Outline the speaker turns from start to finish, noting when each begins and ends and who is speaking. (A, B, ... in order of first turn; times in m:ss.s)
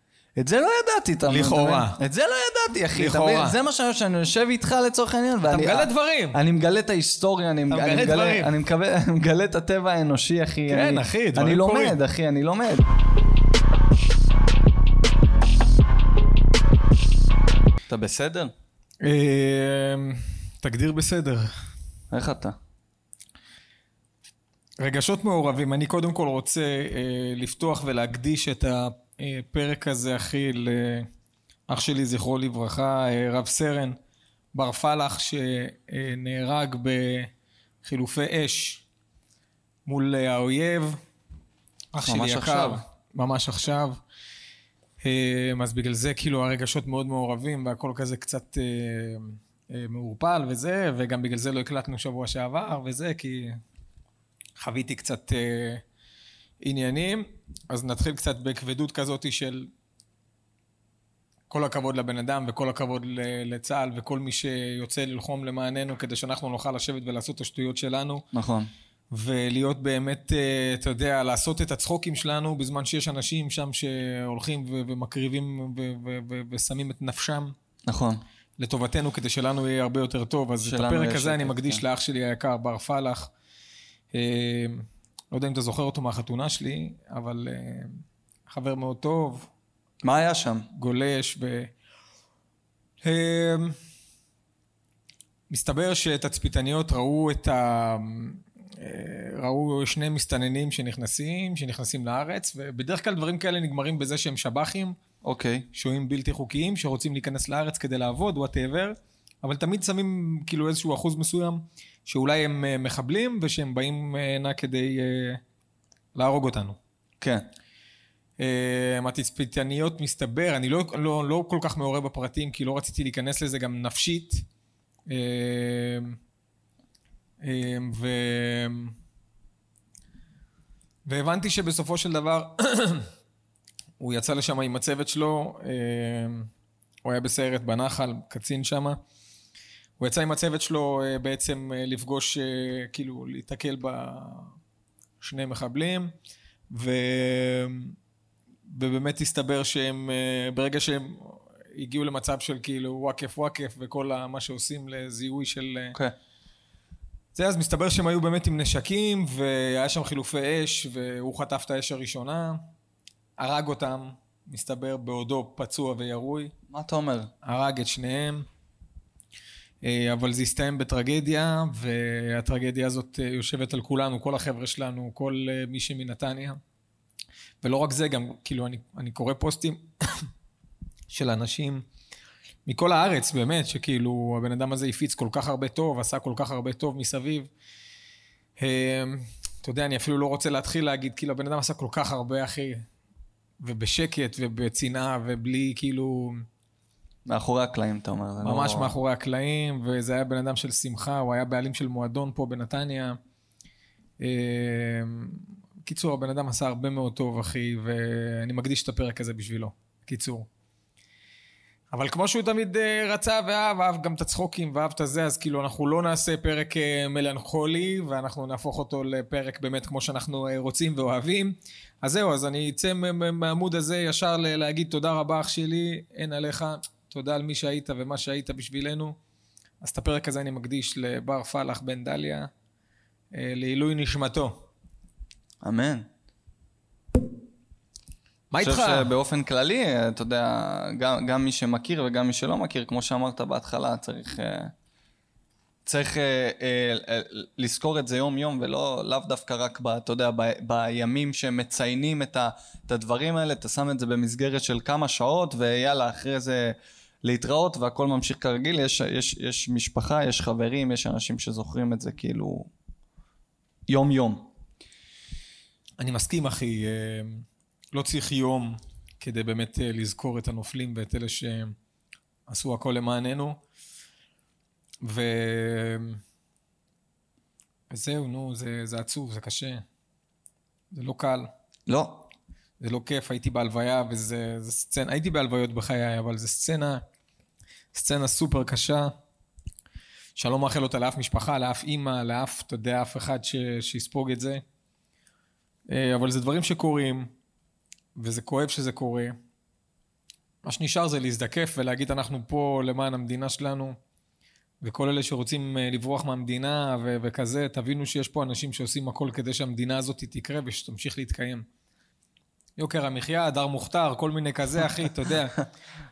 0:00.4-0:12.8 A
0:01.3-0:02.0 B
0:03.0-0:03.6 B
0:05.4-0:06.4 B
0:07.7-0:08.5 B
0:10.7-0:12.0 B
0:17.9-0:18.5 A
0:19.0-0:21.5 B
0:22.1-0:22.6 A
0:24.8-0:31.1 B
0:31.7-0:34.0 B
0:34.5-0:37.3 B
0:37.8-0:38.8 B
0:39.8-0:41.0 B
0:41.9-0:44.0 B
0:42.0-0:42.8 A
0:45.0-0:53.6 B
0:54.6-0:55.8 B
0:56.6-0:59.7 B
1:01.5-1:08.2 B
1:08.3-1:08.7 A
1:09.1-1:17.5 B
1:17.8-1:18.2 A
1:18.6-1:23.3 B
1:20.6-1:21.8 A
1:24.1-1:29.5 B
1:30.0-1:30.7 A
1:30.7-1:31.7 B
1:33.0-1:33.8 B
1:35.5-1:45.0 B
1:45.2-1:45.7 A
1:45.7-1:55.4 B
1:56.1-1:56.8 B
1:57.2-1:57.4 A
1:58.4-2:04.4 B
2:05.1-2:06.2 B
2:07.4-2:08.9 B
2:11.0-2:13.1 B
2:14.0-2:16.5 B
2:17.0-2:19.0 B
2:20.0-2:24.5 B
2:25.2-2:26.1 B
2:26.7-2:28.0 B
2:28.7-2:36.0 B
2:37.3-2:42.6 B
2:43.4-2:46.5 B
2:46.7-2:47.3 A
2:47.4-2:48.4 B
2:49.8-2:56.6 B
2:57.6-3:00.3 B
3:01.1-3:01.8 B
3:02.6-3:07.5 B
3:08.6-3:12.8 B
3:13.6-3:16.4 B
3:17.2-3:18.9 A
3:18.4-3:23.2 B
3:24.2-3:30.5 B
3:31.9-3:49.2 B
3:49.8-3:52.5 B
3:53.3-3:54.6 B
3:55.6-3:56.1 A
3:58.5-3:59.1 B
3:58.6-4:04.7 A
4:05.8-4:22.7 A
4:23.9-4:24.5 A
4:26.0-4:31.7 B
4:32.5-4:33.6 B
4:35.0-4:36.2 B
4:37.9-4:39.8 B
4:40.9-4:41.5 B
4:41.9-4:42.3 A
4:42.8-4:47.0 B
4:47.9-4:49.1 B
4:50.4-4:54.6 B
4:55.9-4:57.3 B
4:58.2-4:59.4 B
5:00.6-5:04.0 B
5:04.8-5:11.6 B
5:12.8-5:15.6 B